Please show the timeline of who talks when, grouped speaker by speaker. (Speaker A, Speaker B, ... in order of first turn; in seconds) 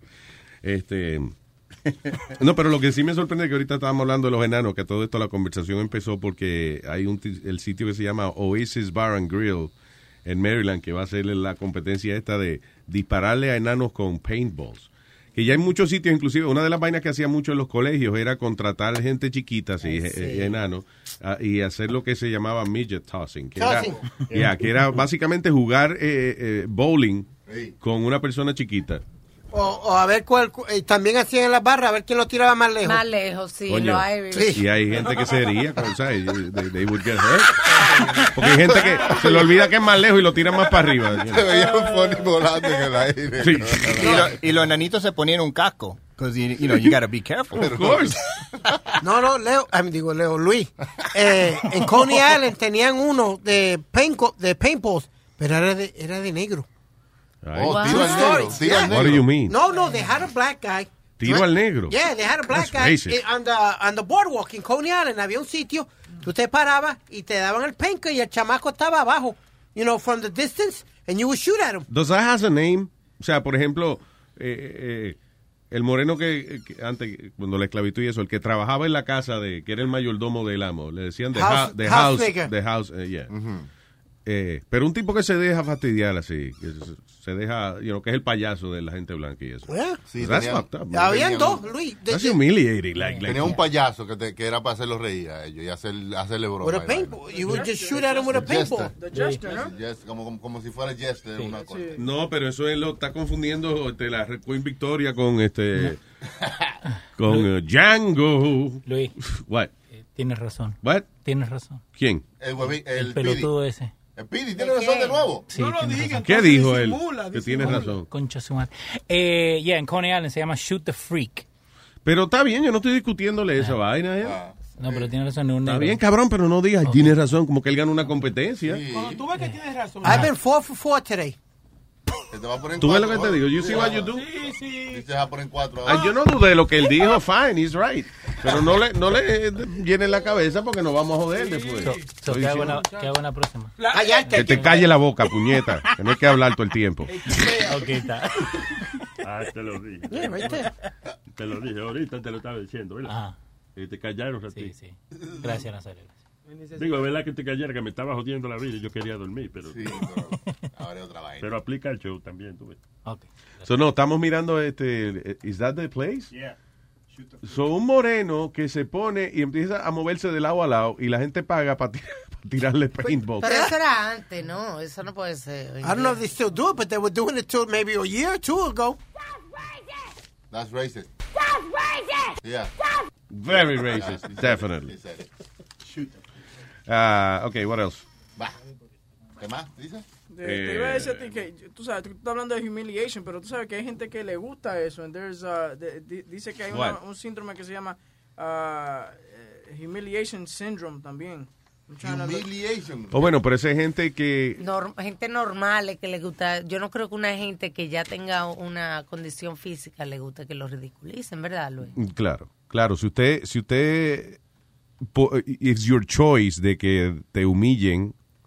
Speaker A: 0.6-1.3, 2.4-9.7, 10.2-27.3, 27.8-29.0, 33.7-41.5, 43.4-44.3, 47.5-48.2, 57.4-58.2, 58.8-59.6, 61.2-62.0, 62.5-63.2, 71.9-75.2, 75.7-83.3, 84.2-91.2, 92.1-93.6, 102.0-106.0, 107.2-109.7, 111.9-112.2, 116.2-118.1, 122.0-124.4, 125.6-128.8, 132.8-134.3, 135.8-142.8, 144.3-147.1, 163.7-166.3, 167.4-173.6, 183.3-184.9, 186.9-188.0, 190.4-191.2, 196.7-197.0, 203.1-204.6, 211.9-214.4, 215.1-218.1
Speaker B: 19.8-20.6, 32.8-34.6, 37.7-38.2, 57.6-58.6, 114.6-115.3, 173.4-176.2, 204.6-211.9
Speaker C: 23.6-24.0, 29.5-33.0, 34.3-34.6, 49.0-56.7, 57.9-71.8, 81.3-82.5, 89.7-90.0, 90.9-92.4, 96.6-98.9, 130.0-131.3, 143.9-144.8, 150.1-150.7, 173.4-173.7, 175.8-179.0
Speaker D: 27.5-27.7, 38.8-39.5, 41.3-44.2, 47.5-48.1, 57.5-59.3, 83.3-83.7, 90.1-91.6, 93.2-97.7, 98.3-98.9, 99.4-102.0, 112.4-113.5, 114.2-115.5, 124.2-125.1, 128.6-129.2, 132.3-136.1, 159.7-161.5, 180.5-181.1, 182.4-182.7, 183.5-185.3, 189.4-190.0, 202.0-203.3
Speaker E: 43.9-47.9
Speaker F: 93.0-93.5, 99.1-99.5, 108.8-109.1, 110.1-111.8, 112.9-113.9, 115.5-116.2, 117.6-121.4, 124.8-126.0, 126.8-127.1, 141.8-143.7, 147.5-148.4, 153.0-153.3, 154.5-156.1
Speaker G: 97.3-99.8, 101.5-102.0, 190.3-202.4
Speaker H: 115.5-117.9, 128.9-130.3, 133.9-135.0, 141.4-142.1, 142.8-143.1, 143.8-144.7, 147.1-148.0, 156.5-157.1
Speaker I: 149.2-150.7, 151.3-153.2, 153.8-154.7, 156.7-159.9, 161.4-162.8